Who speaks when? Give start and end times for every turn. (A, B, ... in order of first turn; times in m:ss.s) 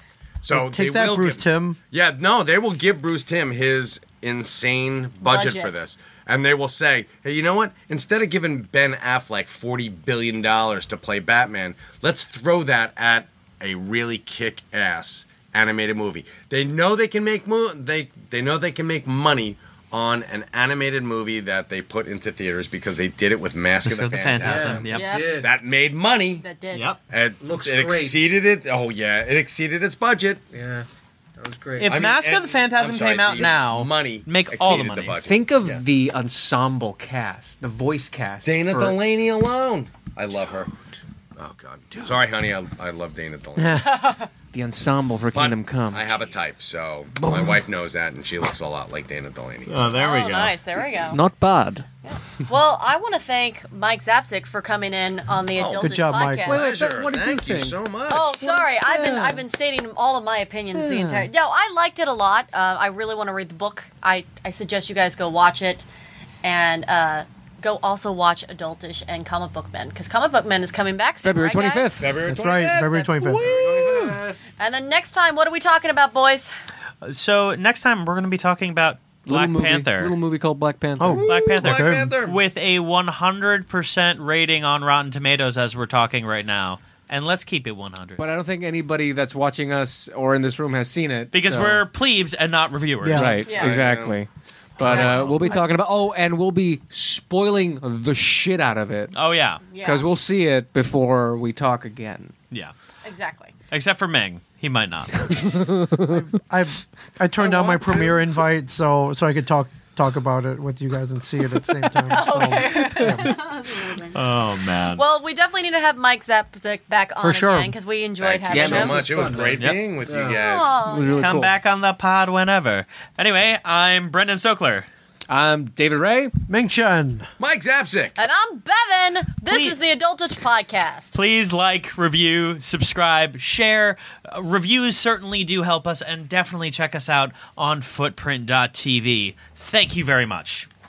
0:00.4-0:26.4 A
0:00.5-0:01.8 B
0:05.2-0:05.7 C
0:23.8-0:25.1 D
0:24.4-0:25.5 E
0:24.9-0:25.3 C
0:26.4-0:26.9 C
0:26.7-0:27.0 D
0:27.1-0:30.4 A
0:27.4-0:28.3 E
0:30.5-0:32.0 E
0:31.8-0:35.2 D
0:31.8-0:35.8 A
0:35.2-0:39.0 E
0:38.4-0:40.8 A
0:41.4-0:43.9 A
0:43.7-0:44.3 C
0:44.5-0:46.3 E
0:45.3-0:49.8 A
0:47.2-0:47.6 E
0:49.7-0:50.6 D
0:49.9-0:51.2 C
0:51.0-0:51.9 E
0:52.0-0:56.6 C
0:55.6-0:58.3 A
0:55.8-0:56.5 B
0:56.4-0:57.8 E
0:58.1-1:05.8 C
0:58.3-0:59.4 E
1:00.7-1:01.3 E
1:06.4-1:12.2 C
1:11.2-1:12.2 E
1:12.0-1:14.3 A
1:12.2-1:13.5 B
1:13.3-1:14.4 E
1:14.6-1:16.5 C
1:17.0-1:20.2 D
1:19.2-1:21.2 E
1:21.0-1:22.1 B
1:21.1-1:22.4 A
1:21.3-1:28.2 D
1:28.2-1:31.8 E
1:31.3-1:33.4 D
1:33.0-1:33.4 B
1:33.1-1:39.1 E
1:33.4-1:34.2 A
1:33.4-1:33.9 C
1:34.8-1:35.4 D
1:34.8-1:35.6 C
1:39.1-1:39.6 D
1:39.7-1:40.0 C
1:39.8-1:42.3 E
1:43.0-1:43.5 C
1:43.7-1:45.6 D
1:45.4-1:46.2 E
1:45.7-1:53.4 B
1:47.4-1:48.1 A
1:52.0-1:54.2 C
1:53.0-1:53.3 E
1:54.1-1:55.0 D
1:54.9-1:59.0 C
1:57.2-1:57.7 E
1:58.2-2:00.8 A
1:58.5-2:01.5 E
1:59.5-1:59.8 D
2:00.2-2:01.3 C
2:01.2-2:04.9 D
2:05.3-2:06.3 E
2:06.5-2:07.3 B
2:07.4-2:08.2 A
2:08.2-2:11.1 C
2:09.5-2:09.8 D
2:11.1-2:20.7 D